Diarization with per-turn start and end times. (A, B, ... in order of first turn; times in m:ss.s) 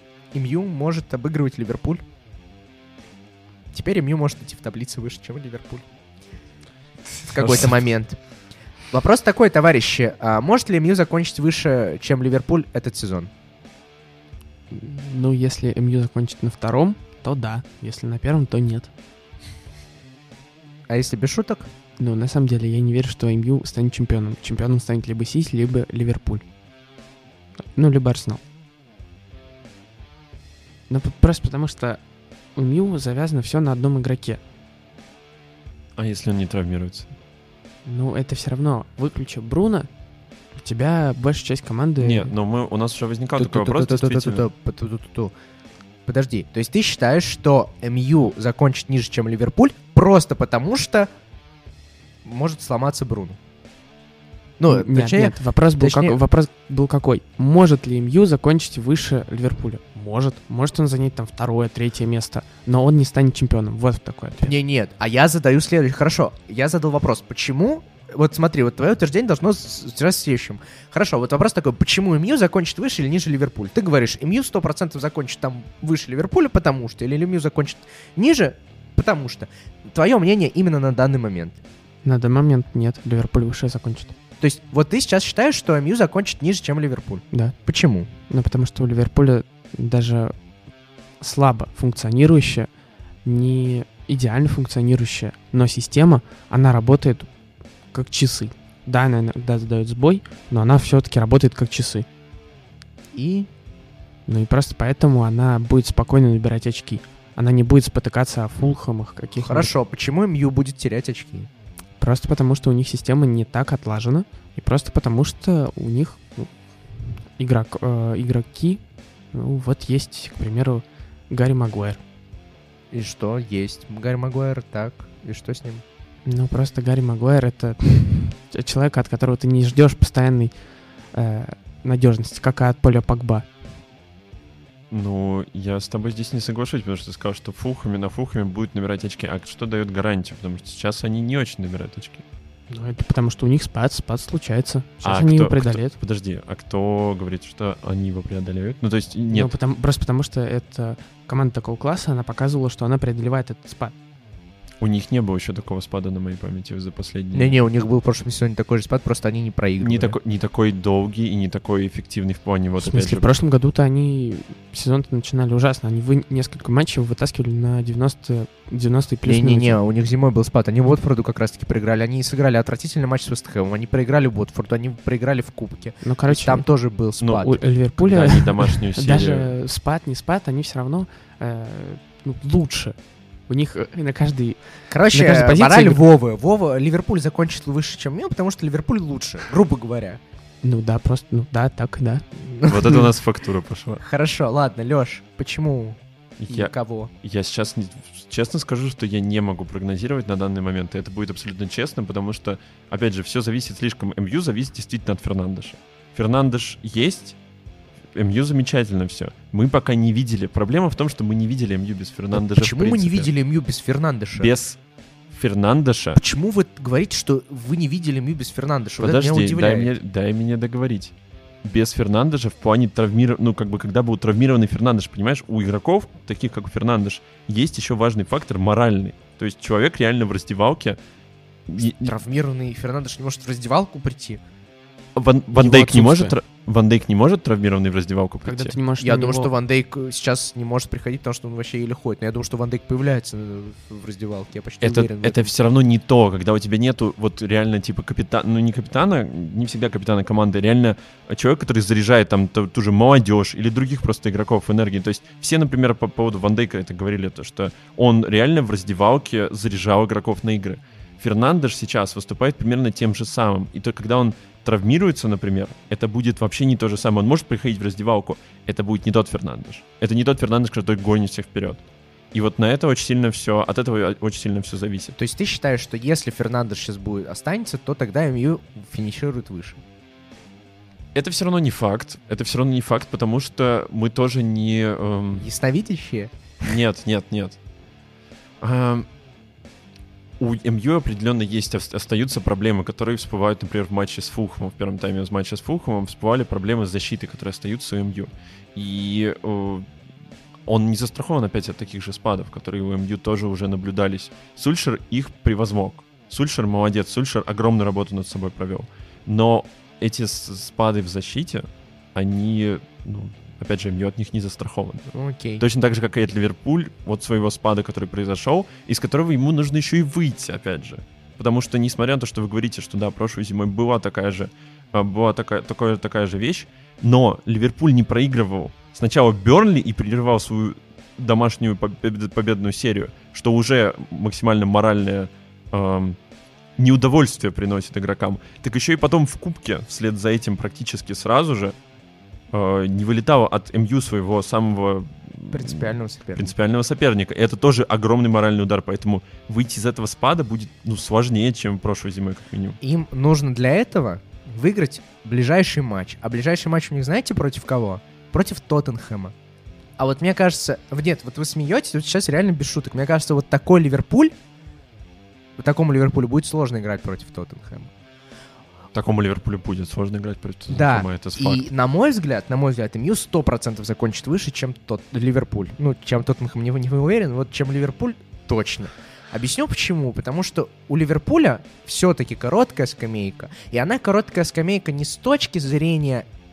0:00.3-0:02.0 A
0:03.7-0:05.9 A
0:07.3-0:07.9 B
0:07.3-0:08.2 A
0:08.9-0:13.3 A
0:14.7-0:18.9 C
0:20.9-0:21.7 A
0:22.0-0:26.4 C
0:27.7-0:28.4 C
0:30.9-0:32.0 C
0:32.6-0:34.4 C
0:36.0-0:37.1 B
0:37.8-0:39.9 C
0:40.6-0:42.3 C
0:42.0-0:44.4 B
0:43.4-0:45.3 A
0:46.1-0:51.1 A
0:52.2-0:53.4 A
0:54.6-0:56.2 A
0:54.7-1:04.5 C
1:04.4-1:21.6 A
1:22.0-1:24.1 C
1:24.4-1:28.1 A
1:27.3-1:27.6 C
1:28.1-1:30.3 C
1:31.2-1:32.7 C
1:33.2-1:37.3 C
1:37.9-1:42.0 C
1:43.1-1:43.5 A
1:44.3-1:49.7 C
1:49.4-1:51.5 A
1:52.0-2:02.0 C
2:02.9-2:05.8 A
2:06.3-2:10.6 C
2:11.1-2:13.5 C
2:14.9-2:22.2 B
2:22.7-2:26.0 C
2:25.0-2:29.5 B
2:29.3-2:33.9 C
2:34.8-2:37.6 B
2:37.3-2:40.2 A
2:39.8-2:43.3 B
2:42.8-2:49.8 C
2:49.2-2:57.6 A
2:56.0-2:56.6 C
2:57.2-2:59.5 B
2:57.3-3:03.0 C
3:03.5-3:06.0 C
3:04.9-3:10.2 A
3:10.6-3:12.3 C
3:12.4-3:13.0 A
3:12.7-3:14.0 B
3:14.0-3:17.1 A
3:16.4-3:27.4 B
3:28.1-3:33.3 B
3:32.3-3:34.5 A
3:34.4-3:34.8 B
3:35.3-3:36.2 B
3:36.1-3:39.9 A
3:39.0-3:51.0 B
3:51.7-3:52.1 B
3:52.0-3:54.4 A
3:55.2-3:58.8 B
3:55.6-3:56.3 C
3:58.4-3:59.5 C
3:59.0-4:05.5 A
4:04.8-4:35.1 B
4:35.1-4:39.8 A
4:41.1-4:45.5 B
4:45.3-4:46.3 A
4:46.6-4:47.6 B
4:48.6-4:49.1 B
4:50.4-4:59.9 B
5:00.7-5:36.2 B
5:15.1-5:15.6 A
5:36.8-5:41.8 B
5:42.5-5:52.8 B
5:45.5-5:46.5 A
5:52.8-5:59.3 A
6:00.0-6:04.3 A
6:05.6-6:07.9 A
6:08.9-6:11.7 B
6:10.7-6:26.3 A